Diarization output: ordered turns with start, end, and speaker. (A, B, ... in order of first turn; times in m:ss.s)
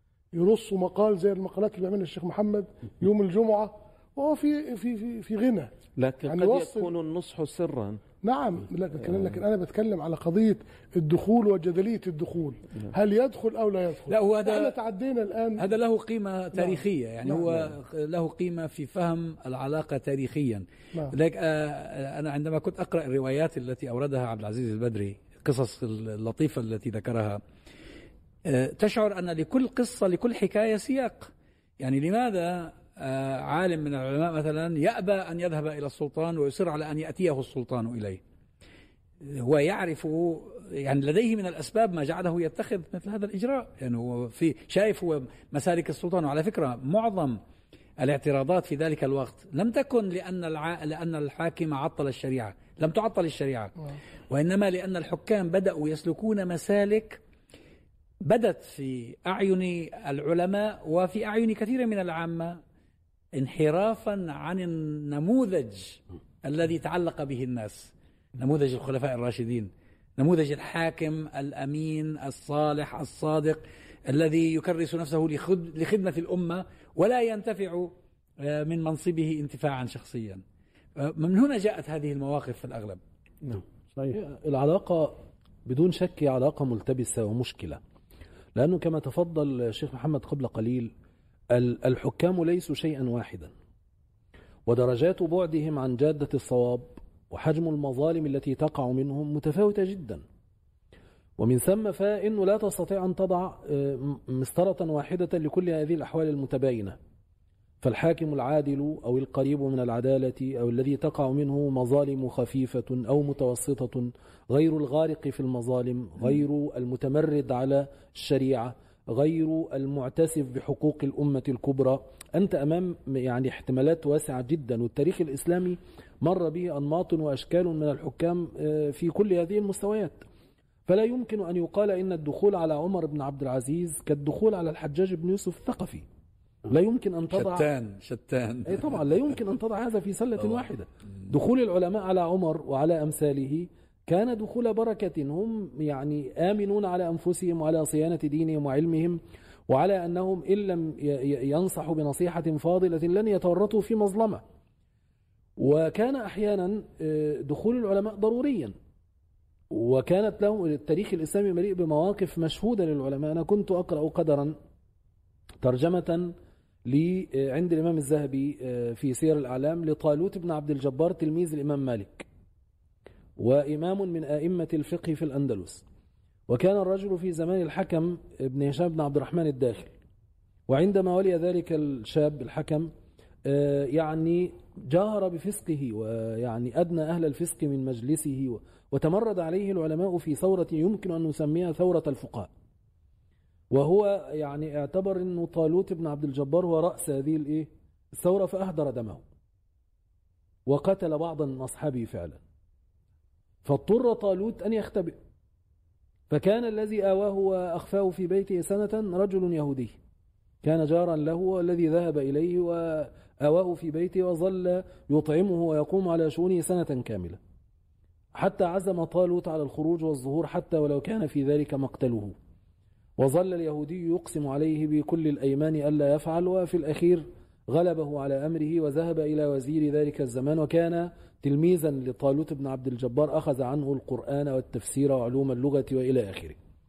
0:00.3-0:05.7 A
0:06.0-0:08.0 B
0:06.2-0:06.9 A
0:08.2-0:15.7 A
0:14.1-0:14.8 C
0:15.6-0:27.4 C
0:16.5-0:17.7 A
0:28.5-0:38.2 C
0:39.2-0:47.4 C
0:48.0-0:53.7 C
0:54.3-0:57.2 C
0:58.2-1:02.6 C
1:03.4-1:20.4 C
1:21.0-1:23.0 C
1:24.1-1:27.8 D
1:28.6-1:30.9 D
1:31.5-1:33.5 D
1:34.7-1:40.2 D
1:41.4-1:47.0 D
1:47.8-2:10.2 D
2:10.9-2:16.0 D
2:16.7-2:17.7 D
2:17.3-2:19.0 C
2:18.7-2:34.4 D
2:35.6-2:38.8 D
2:39.7-2:44.6 D
2:45.6-2:46.3 D
2:46.9-2:52.3 D
2:53.4-2:55.8 D
2:56.5-2:59.9 D
3:00.7-3:02.9 D
3:03.5-3:12.5 D
3:13.7-3:19.2 D
3:20.7-3:22.4 D
3:23.6-3:25.2 D
3:26.3-3:29.9 D
3:30.6-3:37.4 D
3:38.4-3:42.4 D
3:43.2-3:56.6 D